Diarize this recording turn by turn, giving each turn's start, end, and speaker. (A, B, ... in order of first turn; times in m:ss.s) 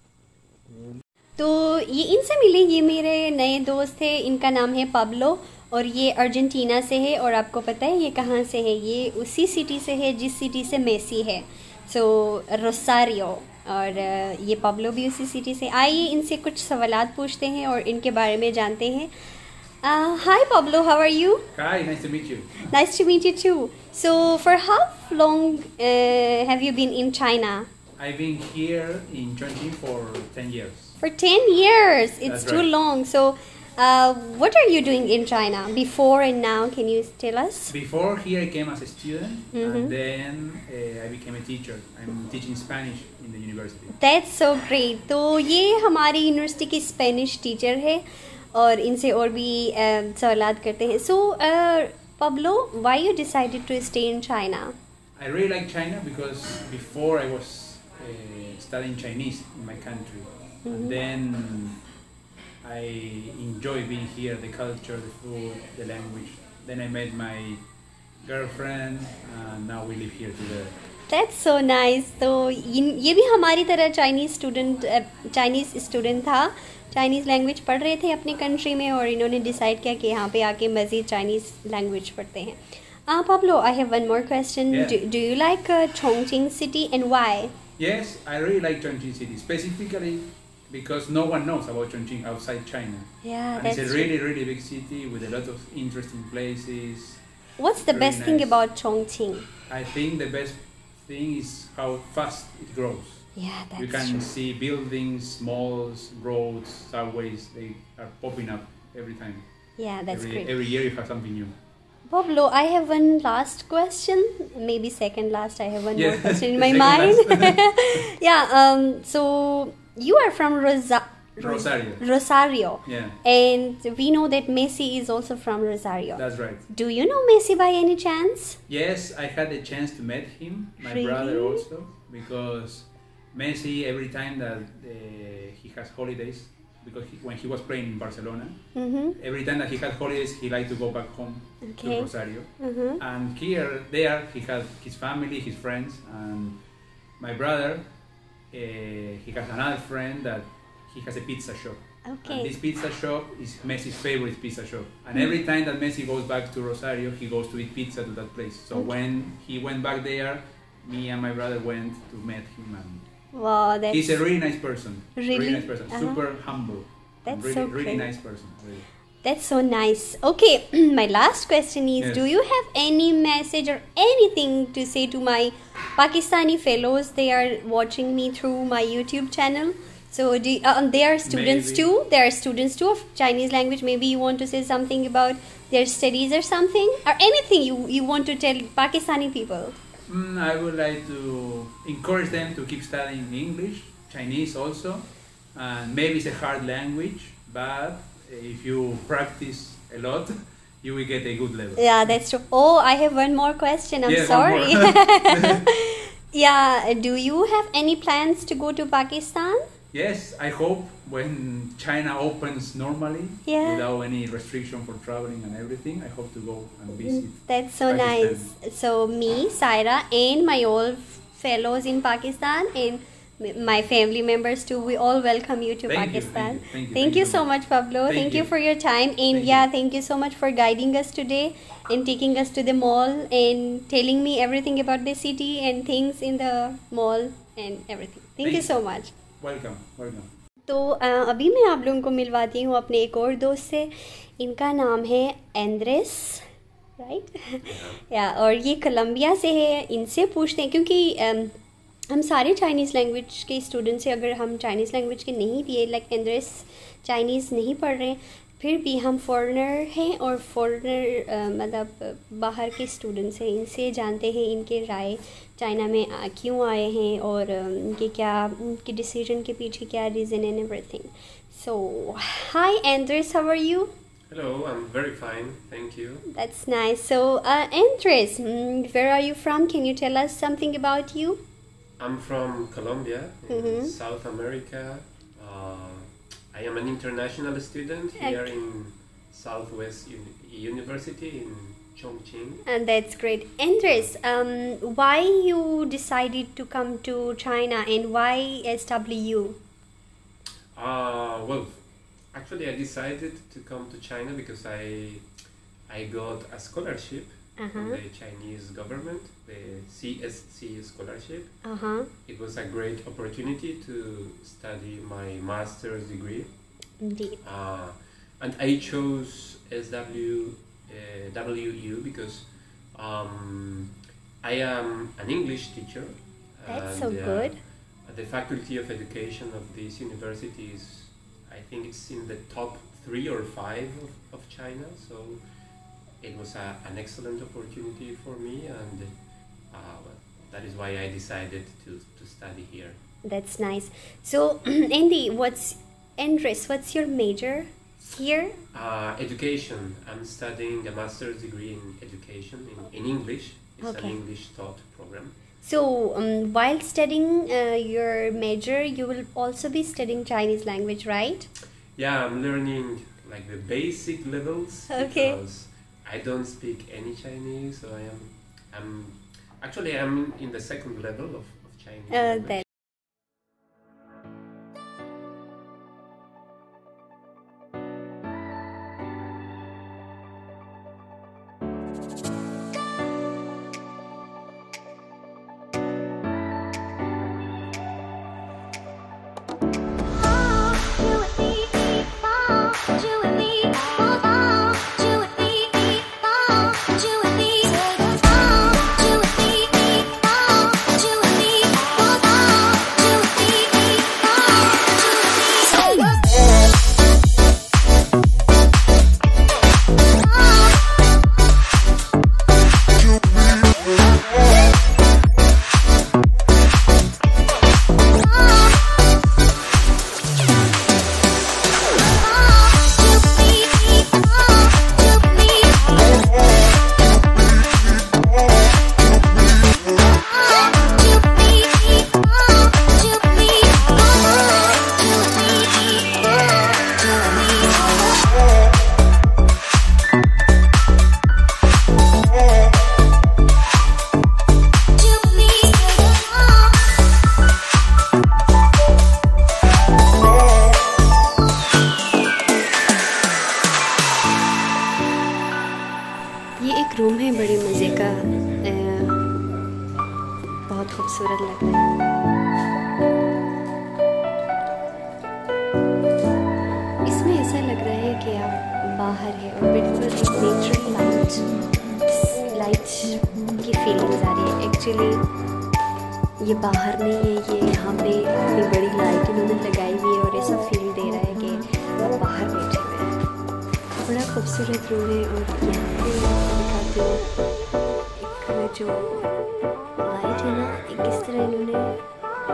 0:01.4-0:19.1 A
0:19.8-0:21.5 A
0:21.5-0:22.6 B
0:22.7-0:27.7 A
0:28.0-0:31.0 B
0:31.0-0:37.7 A
0:32.2-0:32.7 B
0:37.7-0:43.9 B
0:39.5-0:39.9 A
0:43.9-0:54.8 A
0:55.2-1:01.8 B
1:00.6-1:01.0 A
1:02.6-1:07.6 B
1:08.2-1:10.7 B
1:11.1-1:27.5 A
1:24.7-1:25.0 B
1:27.8-1:37.2 B
1:33.2-1:34.1 A
1:37.6-1:39.5 A
1:37.8-1:38.6 B
1:39.7-1:43.3 B
1:43.4-1:44.2 A
1:43.8-1:49.4 B
1:49.8-1:50.5 A
1:50.1-1:51.5 B
1:52.1-2:08.6 A
1:56.0-1:58.0 B
2:01.4-2:02.0 B
2:02.8-2:03.2 B
2:06.2-2:06.6 B
2:08.7-2:18.6 B
2:10.8-2:11.6 A
2:18.8-2:19.2 A
2:19.2-2:26.6 B
2:21.6-2:23.0 A
2:27.2-2:27.8 B
2:28.5-2:43.0 B
2:32.1-2:32.5 A
2:43.3-2:44.2 A
2:43.9-2:48.9 B
2:45.2-2:46.2 A
2:47.2-2:48.1 A
2:49.2-3:09.7 A
2:52.0-2:52.2 B
3:01.2-3:01.9 B
3:10.1-3:21.8 B
3:21.8-3:29.6 A
3:24.0-3:25.6 B
3:29.9-3:38.5 B
3:33.4-3:33.8 A
3:36.9-3:59.1 A
3:45.9-3:47.5 B
3:48.0-3:48.5 B
3:49.3-3:49.7 B
3:58.4-3:58.8 B
3:59.4-4:00.3 B
4:00.7-4:06.4 A
4:07.0-4:11.5 A
4:07.6-4:08.0 C
4:12.1-4:33.9 A
4:34.3-4:36.2 C
4:36.3-4:41.4 A
4:42.0-4:52.6 C
4:43.5-4:43.9 A
4:48.2-4:48.5 A
4:52.6-4:59.6 A
5:00.7-5:01.8 C
5:02.3-5:05.2 C
5:05.9-5:11.5 C
5:07.6-5:08.0 A
5:11.6-5:12.1 A
5:12.2-5:16.5 C
5:17.0-5:17.4 A
5:17.4-5:35.4 C
5:26.7-5:27.6 A
5:36.2-5:39.1 C
5:39.7-5:43.0 C
5:43.2-5:48.6 A
5:48.7-5:55.3 C
5:53.8-5:54.2 A
5:55.6-6:01.5 A
6:02.0-6:12.6 C
6:04.9-6:05.4 A
6:12.1-6:12.6 A
7:36.6-7:39.3 A
7:37.4-7:38.8 B
7:39.5-7:40.4 B
7:40.7-7:41.9 A
7:47.0-7:51.5 A
7:52.1-7:55.2 A
7:56.4-8:03.1 A
8:04.0-8:07.3 A
8:08.2-8:09.3 A
8:10.0-8:12.0 A